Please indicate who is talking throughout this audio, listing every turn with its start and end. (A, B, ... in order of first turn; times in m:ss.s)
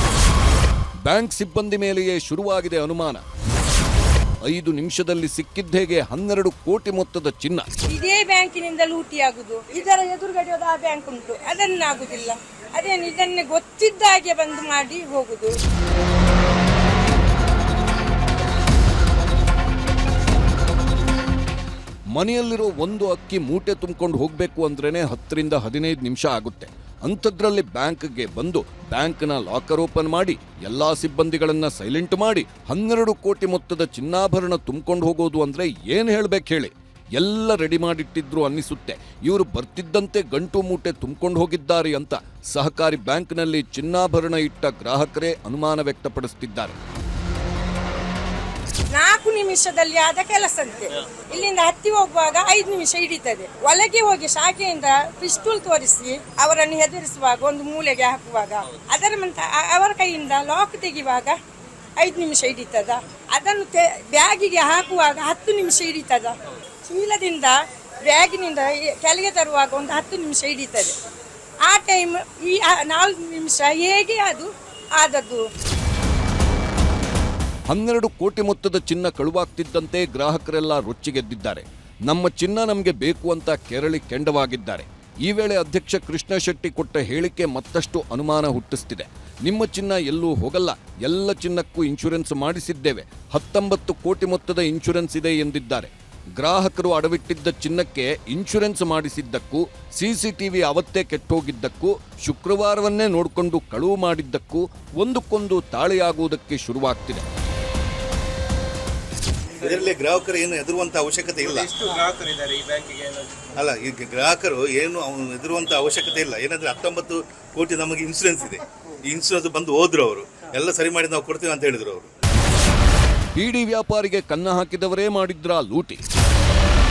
0:01.0-0:03.2 A
0:04.4-0:07.6 A
0:07.9-0:15.5 B
0:22.1-0:46.7 A
0:48.9-1:01.4 B
1:02.0-1:11.0 B
1:11.6-1:15.5 B
1:17.7-1:47.2 A
1:49.6-1:51.9 C
1:53.6-2:02.1 C
2:03.3-2:06.0 A